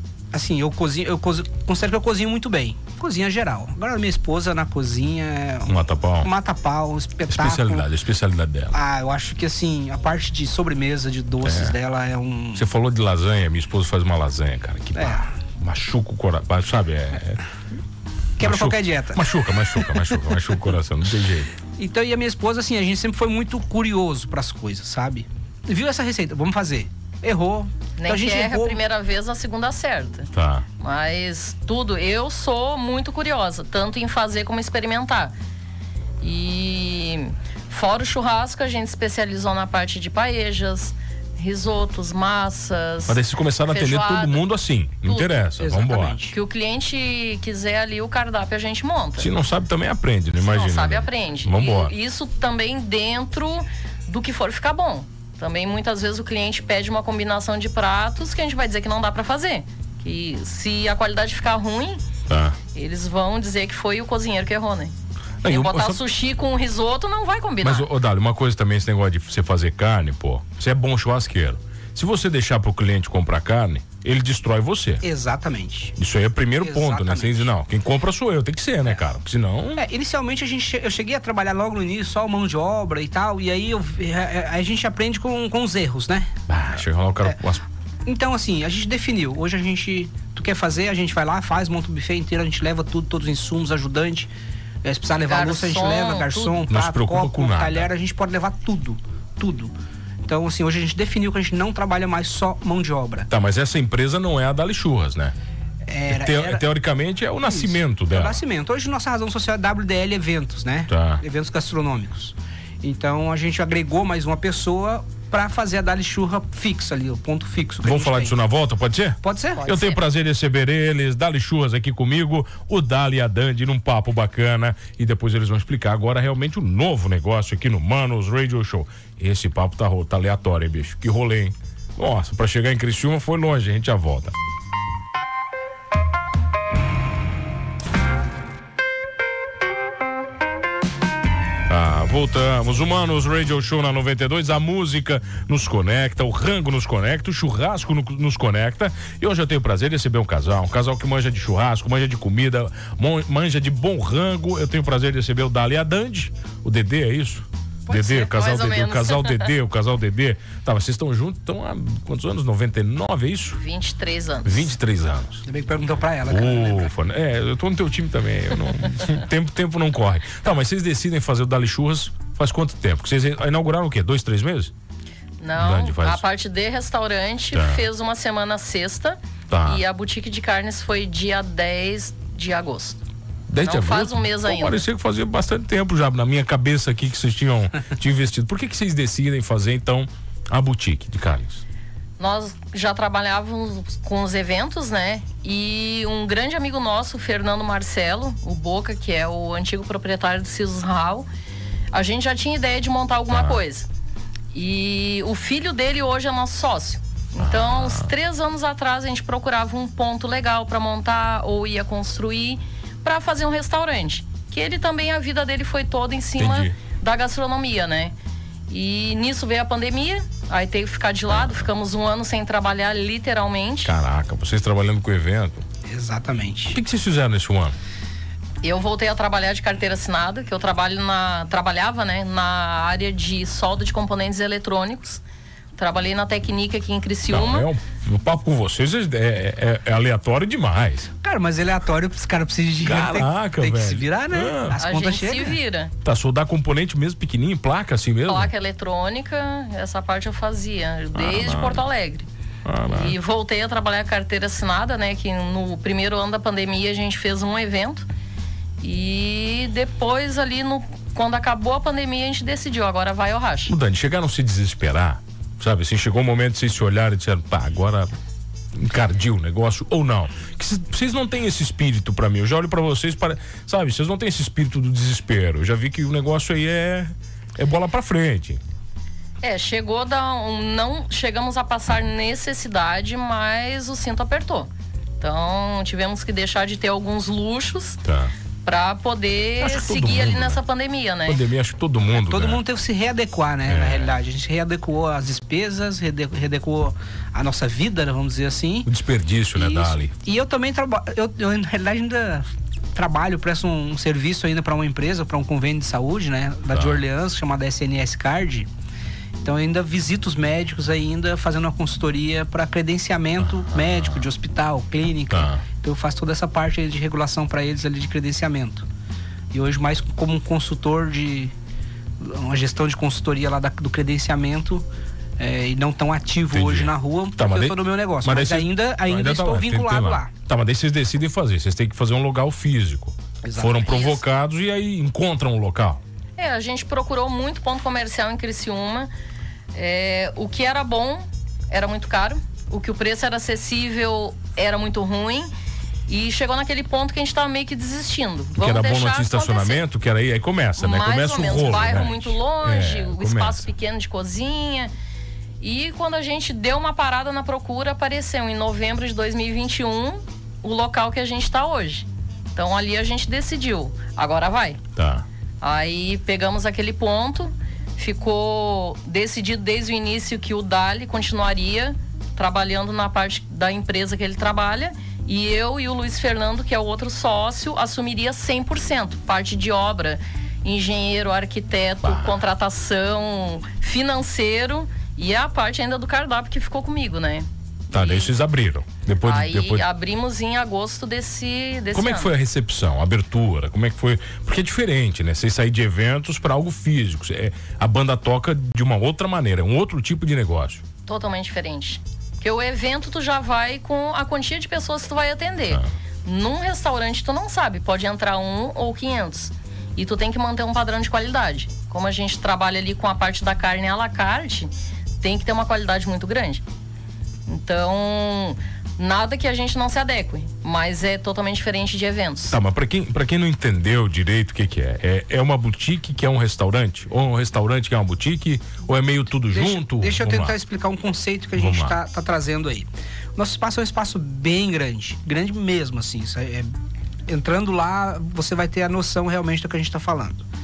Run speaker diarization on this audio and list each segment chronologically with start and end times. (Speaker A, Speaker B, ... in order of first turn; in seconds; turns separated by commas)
Speaker A: 0.3-7.9, Speaker B: 5.7-6.3, Speaker B: 7.3-8.8, Speaker A: 8.7-12.7, Speaker B: 11.4-11.8, Speaker B: 12.5-17.4, Speaker A: 14.9-15.3, Speaker A: 18.4-20.2, Speaker B: 18.4-21.5, Speaker A: 21.8-28.8, Speaker C: 28.0-35.3, Speaker B: 30.3-30.6, Speaker C: 36.2-44.4, Speaker B: 43.1-46.2, Speaker C: 45.0-45.3, Speaker A: 45.6-46.4, Speaker C: 46.2-49.3, Speaker B: 49.2-51.9, Speaker C: 50.4-62.0, Speaker B: 62.3-62.6, Speaker C: 62.7-64.9, Speaker B: 65.4-66.0, Speaker C: 65.4-67.9, Speaker B: 67.6-75.0, Speaker A: 75.0-75.9, Speaker B: 76.0-79.8, Speaker A: 76.6-77.5, Speaker A: 79.8-86.3, Speaker B: 86.5-87.6, Speaker A: 88.0-94.3, Speaker A: 94.8-99.7, Speaker C: 95.2-96.6, Speaker B: 96.7-97.9, Speaker A: 100.2-103.3, Speaker B: 103.3-105.3, Speaker A: 105.9-106.6, Speaker B: 106.1-108.4, Speaker A: 107.5-118.4, Speaker B: 110.9-111.2, Speaker B: 117.8-134.3, Speaker A: 119.2-119.9, Speaker B: 141.7-163.6, Speaker A: 157.9-158.2, Speaker C: 157.9-159.5, Speaker C: 163.5-164.7, Speaker B: 164.4-165.4, Speaker A: 165.4-166.9, Speaker B: 166.2-174.7, Speaker C: 175.4-183.0, Speaker B: 175.6-176.2, Speaker B: 177.5-177.8, Speaker B: 179.5-179.8, Speaker B: 183.5-191.6, Speaker C: 183.6-184.8, Speaker C: 192.2-201.3, Speaker C: 201.9-203.9, Speaker B: 203.3-203.6, Speaker C: 204.5-218.1, Speaker B: 207.4-208.1, Speaker B: 216.4-216.7, Speaker C: 218.7-223.9, Speaker B: 221.3-221.7, Speaker B: 223.8-225.6, Speaker A: 225.9-226.8, Speaker B: 226.7-227.8, Speaker C: 228.6-235.2, Speaker C: 235.8-237.7, Speaker B: 237.3-241.1, Speaker A: 241.2-245.6, Speaker B: 242.8-244.8, Speaker C: 244.8-245.9, Speaker B: 246.0-248.5, Speaker C: 248.2-252.3, Speaker B: 251.1-251.8, Speaker B: 252.6-253.2, Speaker C: 252.8-258.1, Speaker C: 258.8-263.7, Speaker B: 263.7-268.1, Speaker B: 268.7-278.6, Speaker C: 279.4-288.0, Speaker B: 288.0-288.3, Speaker C: 288.6-291.4, Speaker B: 289.6-290.6, Speaker B: 291.3-292.6, Speaker A: 292.1-298.9, Speaker B: 293.7-294.2, Speaker B: 298.9-300.1, Speaker A: 299.5-308.7, Speaker B: 306.7-307.0, Speaker A: 309.4-318.8, Speaker B: 313.4-314.3, Speaker B: 315.3-315.6, Speaker A: 319.5-321.5, Speaker A: 322.2-324.8, Speaker A: 325.4-330.3, Speaker B: 326.5-336.0, Speaker A: 333.4-333.9, Speaker C: 333.8-334.2, Speaker C: 336.4-339.1, Speaker C: 339.7-345.5, Speaker C: 346.1-349.8, Speaker B: 348.6-353.6, Speaker C: 350.8-354.9, Speaker C: 355.6-364.8, Speaker B: 364.9-365.2, Speaker C: 365.6-388.3, Speaker B: 382.0-382.4, Speaker B: 387.9-389.8, Speaker C: 389.2-392.3, Speaker B: 391.9-400.8, Speaker C: 401.1-416.6, Speaker C: 417.5-422.6, Speaker B: 422.5-430.6, Speaker A: 429.5-436.7, Speaker B: 431.5-432.0, Speaker A: 437.3-440.4